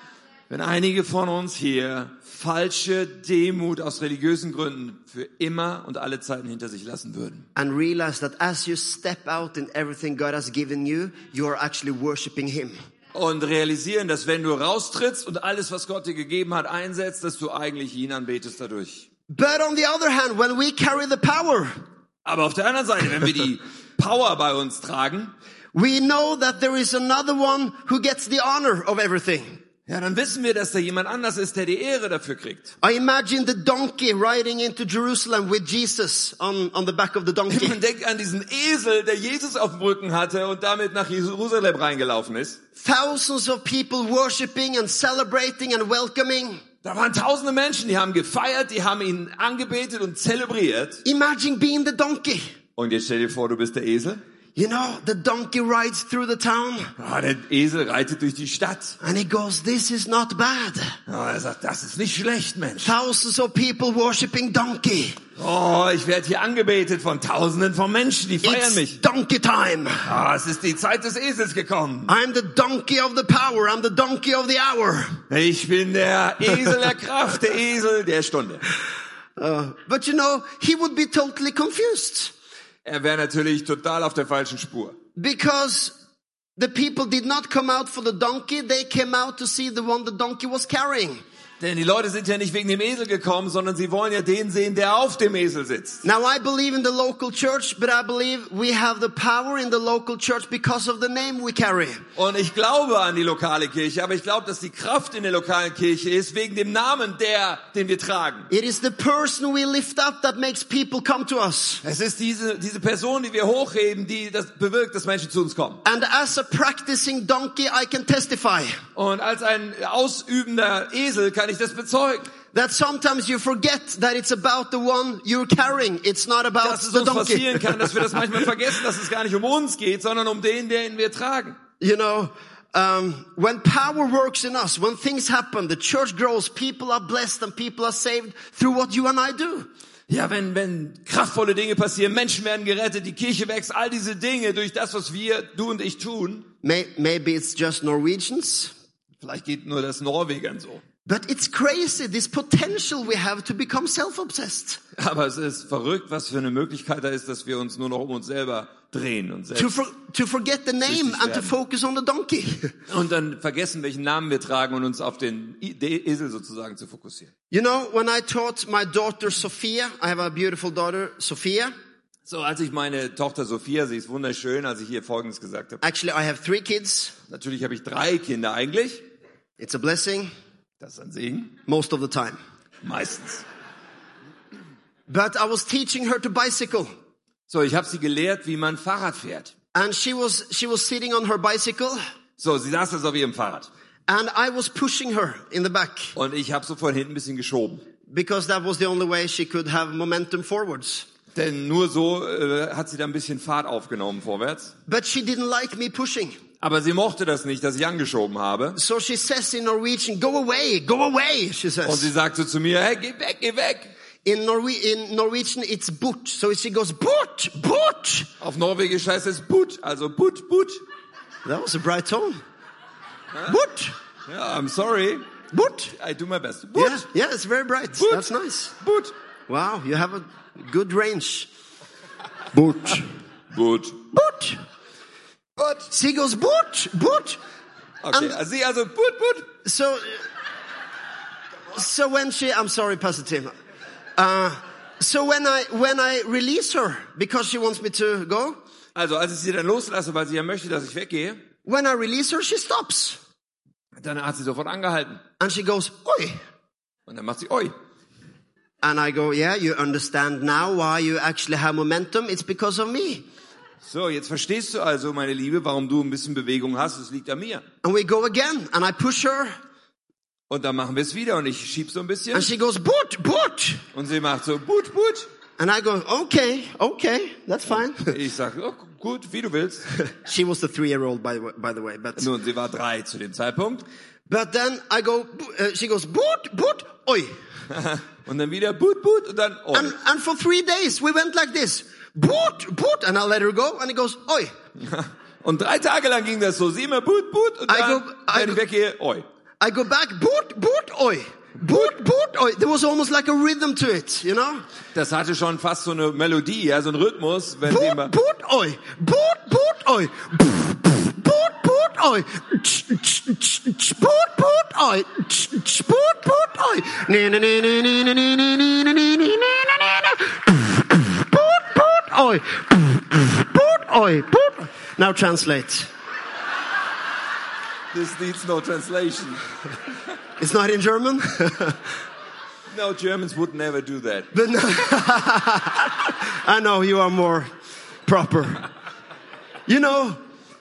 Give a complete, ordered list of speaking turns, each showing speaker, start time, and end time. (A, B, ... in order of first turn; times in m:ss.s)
0:00.5-0:07.4 A
0:07.6-0:12.7 B
0:13.1-0:19.0 A
0:19.3-0:21.7 B
0:22.2-0:25.3 A
0:25.7-0:29.5 B
0:29.9-0:32.7 A
0:32.8-0:37.8 B
0:37.5-0:42.6 A
0:42.8-0:46.6 B
0:46.8-0:51.0 A
0:51.0-0:52.4 B
0:52.8-0:54.2 A
0:54.6-0:56.9 B
0:57.0-0:59.0 A
0:59.0-1:00.9 B
1:01.1-1:02.9 A
1:02.8-1:05.2 B
1:05.4-1:09.0 A
1:08.4-1:10.0 B
1:10.0-1:12.1 A
1:12.1-1:15.2 B
1:15.3-1:18.6 A
1:19.4-1:22.3 B
1:22.8-1:25.0 A
1:25.2-1:25.9 B
1:26.6-1:31.2 B
1:31.6-1:36.0 A
1:36.0-1:42.0 B
1:42.2-1:48.5 A
1:48.5-1:51.8 B
1:51.8-1:55.8 A
1:55.8-1:58.8 B
1:59.0-2:02.3 A
2:02.5-2:08.4 B
2:06.6-2:11.6 A
2:11.8-2:19.7 B
2:20.1-2:26.5 A
2:26.6-2:28.7 B
2:29.2-2:30.8 A
2:31.0-2:34.8 B
2:35.0-2:39.8 A
2:39.5-2:42.7 B
2:40.8-2:41.5 A
2:42.9-2:47.3 A
2:47.5-2:51.7 B
2:52.2-2:55.8 A
2:55.8-2:57.1 B
2:57.3-2:59.0 A
2:59.6-3:00.3 B
3:00.8-3:01.5 A
3:01.7-3:02.4 B
3:02.8-3:03.4 A
3:05.1-3:06.9 B
3:07.5-3:09.5 A
3:09.7-3:12.0 B
3:12.4-3:13.7 A
3:14.1-3:16.1 B
3:16.2-3:17.8 A
3:18.1-3:21.1 B
3:21.3-3:24.7 A
3:24.9-3:26.4 B
3:26.6-3:28.8 A
3:28.8-3:32.1 B
3:31.8-3:33.9 A
3:34.2-3:38.3 B
3:38.4-3:40.8 A
3:41.4-3:42.4 B
3:43.5-3:43.9 B
3:44.3-3:45.2 A
3:45.5-3:45.9 B
3:45.9-3:47.0 A
3:46.7-3:48.7 B
3:48.0-3:48.3 A
3:48.8-3:49.1 A
3:49.5-3:51.5 B
3:52.5-3:53.0 B
3:53.5-3:54.0 A
3:54.1-3:54.6 B
3:55.6-3:55.9 A
3:55.9-3:57.4 B
3:58.0-3:59.5 A
3:59.6-4:00.2 B
4:01.7-4:03.5 B
4:04.2-4:08.6 B
4:08.9-4:11.4 A
4:11.6-4:13.2 B
4:14.0-4:15.2 A
4:15.4-4:16.4 B
4:17.1-4:17.7 A
4:18.8-4:23.2 B
4:23.8-4:27.6 A
4:27.8-4:29.5 B
4:30.5-4:32.5 A
4:32.3-4:33.8 B
4:33.9-4:35.2 A
4:35.6-4:38.1 B
4:37.7-4:39.9 A
4:40.0-4:42.3 B
4:42.2-4:43.8 A
4:44.3-4:47.3 B
4:47.7-4:49.9 A
4:49.7-4:54.5 B
4:54.8-4:59.2 A
4:57.7-4:58.6 B
4:59.6-5:04.6 B
5:04.9-5:08.1 A
5:07.7-5:25.9 B
5:27.9-5:29.4 A
5:30.4-5:31.9 B
5:32.7-5:34.3 A
5:34.3-5:37.5 B
5:38.0-5:38.7 B
5:39.7-5:40.2 B